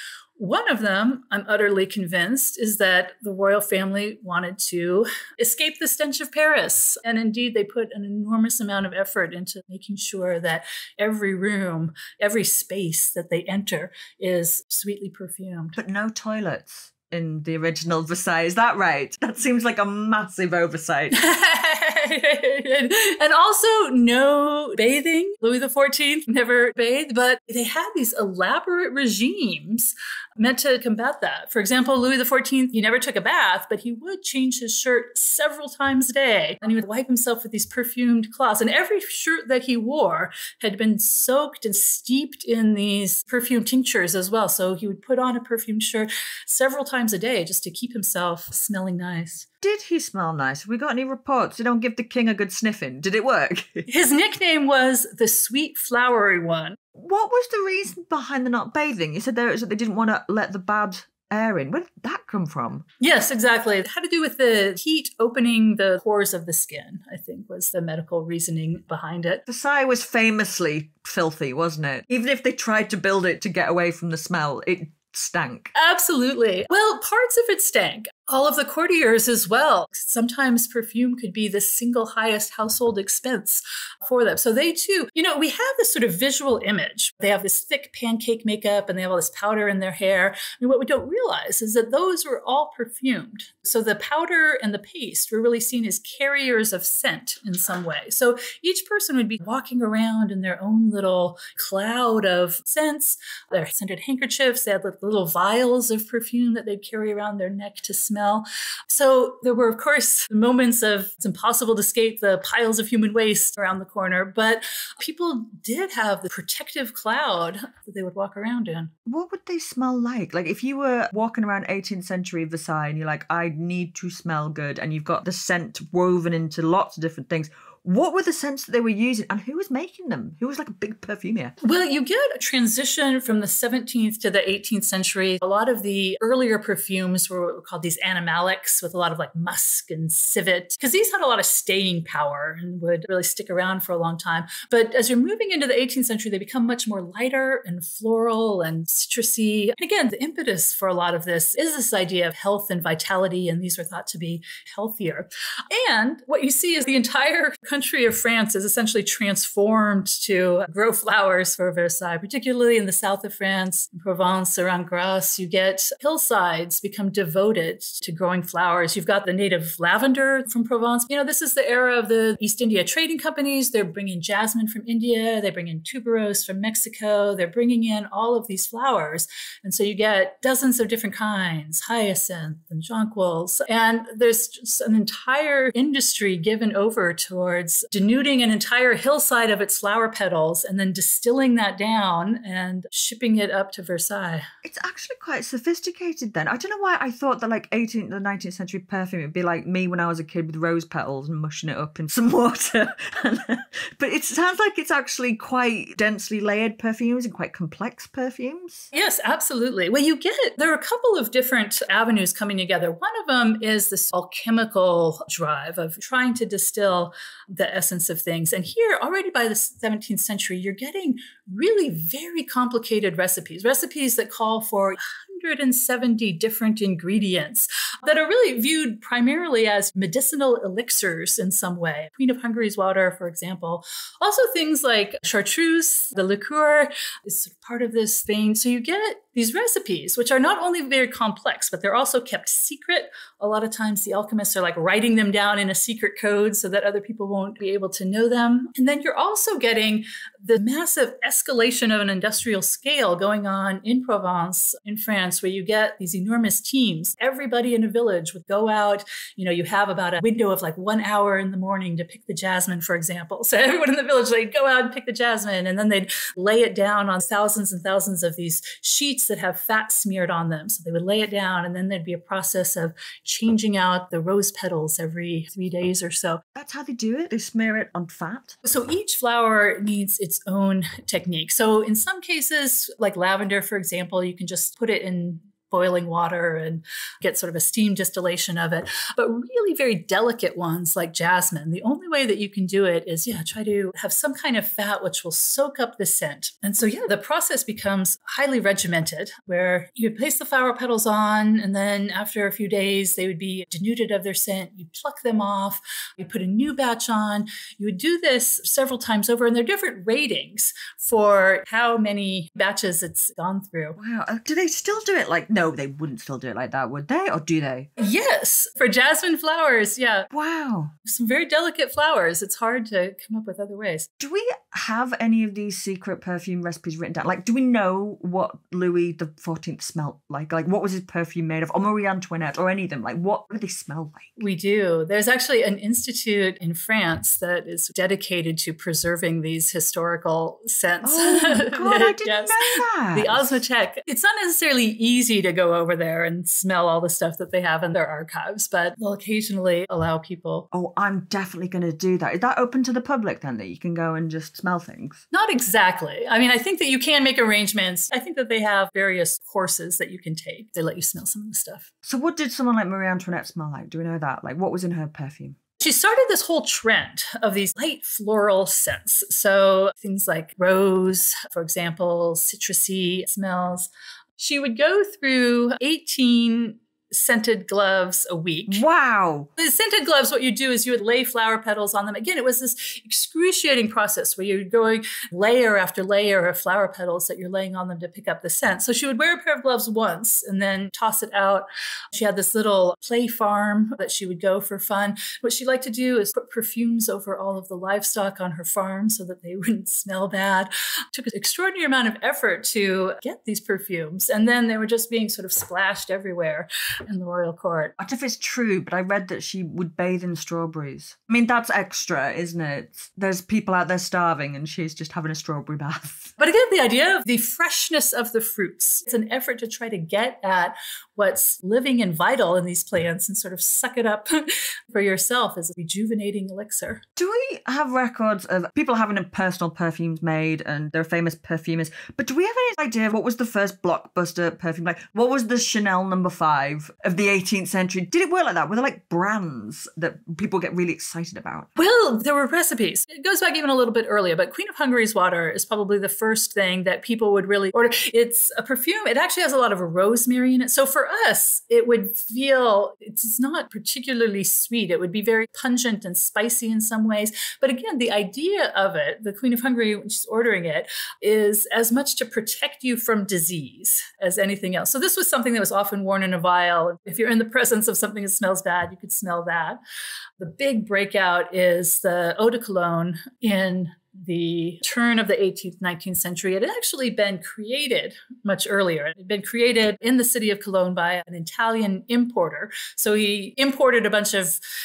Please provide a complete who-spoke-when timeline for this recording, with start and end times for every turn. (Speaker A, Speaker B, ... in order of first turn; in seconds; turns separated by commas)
Speaker A: 0.4-15.8, Speaker B: 15.8-21.2, Speaker A: 21.1-49.5, Speaker B: 49.6-53.9, Speaker A: 53.9-56.8, Speaker B: 56.9-62.9, Speaker A: 63.0-69.4, Speaker B: 69.5-75.7, Speaker A: 75.7-118.9, Speaker B: 119.1-131.5, Speaker A: 131.6-194.5, Speaker B: 194.6-208.9, Speaker A: 208.9-276.4, Speaker B: 276.5-278.6, Speaker A: 278.6-314.0, Speaker B: 314.0-317.9, Speaker A: 318.0-320.3, Speaker B: 320.3-320.9, Speaker A: 321.1-324.1, Speaker B: 324.2-334.4, Speaker A: 334.4-350.7, Speaker B: 341.0-343.6, Speaker B: 350.7-355.2, Speaker A: 355.3-361.9, Speaker B: 362.0-365.6, Speaker A: 365.8-378.8, Speaker B: 378.7-379.5, Speaker A: 379.6-407.9, Speaker B: 408.0-416.4, Speaker A: 416.4-427.0, Speaker B: 427.2-441.7, Speaker A: 441.8-469.8, Speaker A: 470.4-484.6